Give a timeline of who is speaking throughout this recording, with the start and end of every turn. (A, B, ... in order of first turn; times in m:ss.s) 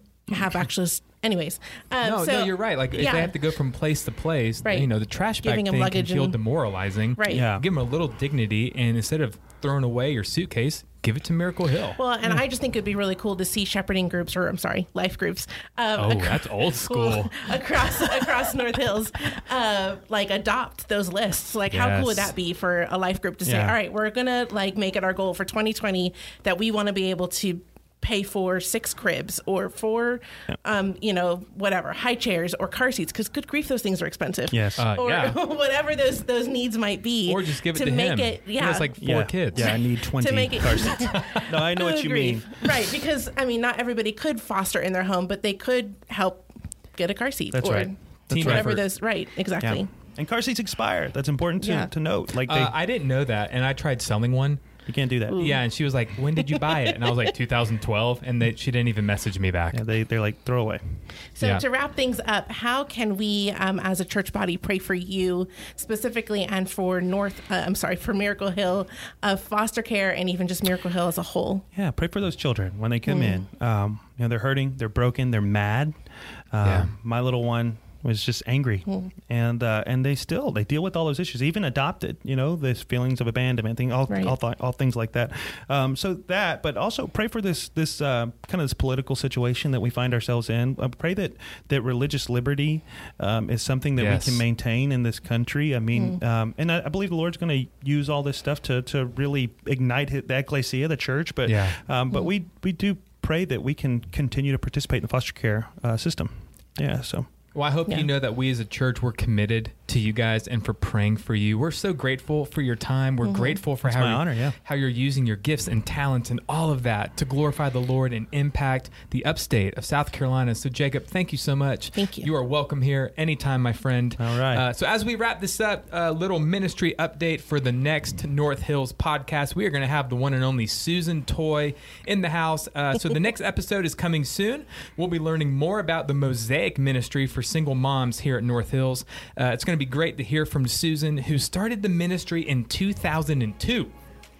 0:00.3-0:03.3 A
0:02.0-0:12.0 B
0:04.6-0:04.9 A
0:05.4-0:06.4 A
0:07.2-0:07.5 A
0:07.3-0:07.6 C
0:12.0-0:38.9 A
0:16.0-0:18.0 B
0:21.7-0:22.3 B
0:23.4-0:23.8 C
0:34.5-0:34.8 C
0:34.8-0:35.4 B
0:37.2-0:39.8 B
0:39.0-0:42.8 C
0:39.5-0:49.9 A
0:41.0-0:41.5 B
0:47.5-0:48.8 C
0:48.3-0:48.8 B
0:49.6-0:52.7 C
0:51.6-0:51.9 A
0:52.5-0:54.6 B
0:54.9-0:55.6 C
0:55.3-0:55.6 A
0:55.3-0:59.8 B
0:56.4-0:56.9 A
0:59.7-1:01.0 C
1:01.4-1:11.6 A
1:11.7-1:16.0 C
1:13.0-1:13.4 A
1:16.5-1:47.3 C
1:16.6-1:16.9 B
1:24.1-1:24.4 A
1:34.0-1:34.4 B
1:41.4-1:41.8 B
1:47.5-2:23.9 B
1:53.2-1:53.6 A
1:53.8-1:54.6 C
2:02.0-2:02.3 A
2:04.2-2:04.6 C